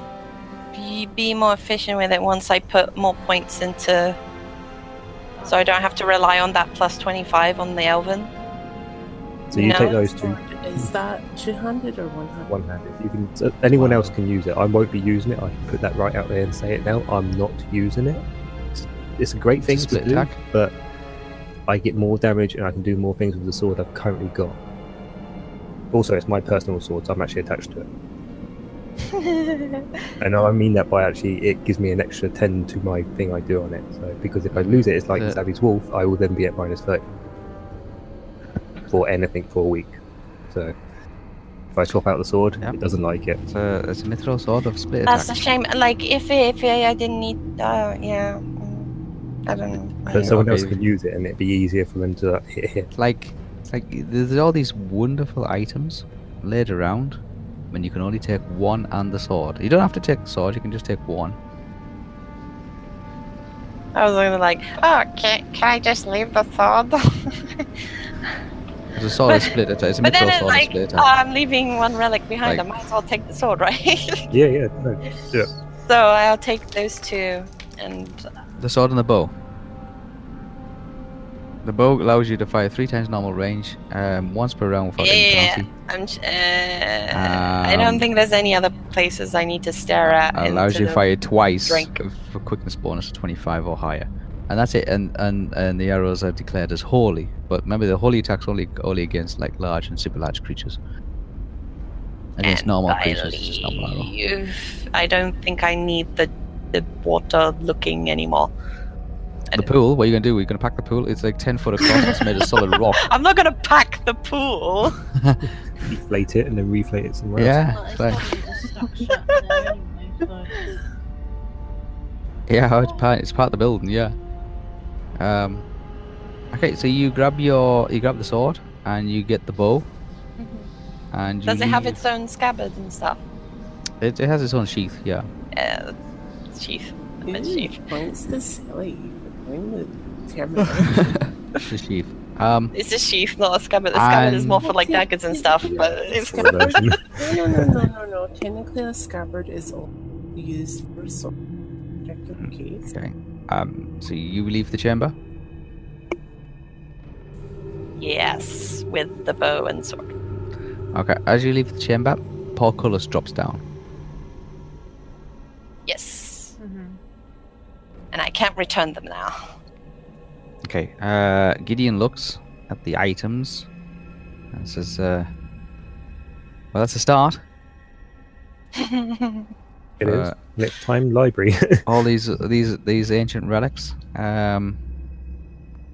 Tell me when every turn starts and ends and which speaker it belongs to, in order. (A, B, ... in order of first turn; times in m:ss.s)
0:00.7-0:04.2 A
0:05.4-0:05.7 B
0:05.5-0:08.3 A
0:09.5-0:10.4 C
0:09.5-0:10.1 A
0:09.7-0:12.5 D
0:12.5-0:18.2 C
0:13.8-0:14.1 E
0:18.8-0:20.7 C
0:19.6-0:20.4 E
0:21.7-0:24.6 C
0:25.9-0:27.9 C
0:29.0-0:30.0 A
0:30.2-0:37.0 C
0:34.5-0:35.4 E
0:38.9-0:40.7 C
0:41.7-0:43.4 C
0:43.5-0:45.4 E
0:45.1-0:48.9 A
0:49.4-0:50.3 A
0:49.7-0:50.8 E
0:50.1-0:52.9 C
0:53.0-0:57.2 E
0:57.7-1:01.4 E
1:03.9-1:08.3 A
1:08.9-1:11.1 E
1:09.2-1:14.3 A
1:14.3-1:15.6 C
1:15.8-1:18.2 A
1:18.6-1:19.3 E
1:21.6-1:25.7 E
1:25.0-1:31.0 A
1:27.1-1:28.0 E
1:30.0-1:40.8 E
1:31.6-1:31.9 A
1:42.4-1:44.1 E
1:42.4-1:48.5 A
1:49.5-1:53.0 E
1:51.8-1:55.0 A
1:55.1-1:55.5 E
1:55.8-1:57.6 C
1:57.4-1:58.2 E
1:57.5-2:00.6 B
1:59.0-1:59.5 A
2:02.5-2:04.2 E
2:05.2-2:05.6 E
2:06.5-2:09.9 E
2:10.4-2:10.7 A
2:11.1-2:12.0 E
2:11.4-2:13.2 A
2:14.0-2:15.3 E
2:15.5-2:16.0 A
2:16.5-2:17.8 A
2:17.2-2:21.2 D
2:20.7-2:22.7 E
2:22.7-2:26.6 A
2:23.9-2:24.6 E
2:24.6-2:31.3 D
2:25.6-2:27.8 C
2:32.0-2:32.9 D
2:32.4-2:35.1 E
2:38.0-2:40.1 A
2:40.9-2:43.6 E
2:45.8-2:46.6 A
2:46.6-2:47.0 B
2:48.1-2:49.3 A
2:50.6-2:53.7 E
2:54.5-2:55.3 E
2:56.7-2:57.4 E
2:58.7-2:59.5 A
3:00.0-3:01.8 C
3:00.0-3:00.4 E
3:01.8-3:04.8 E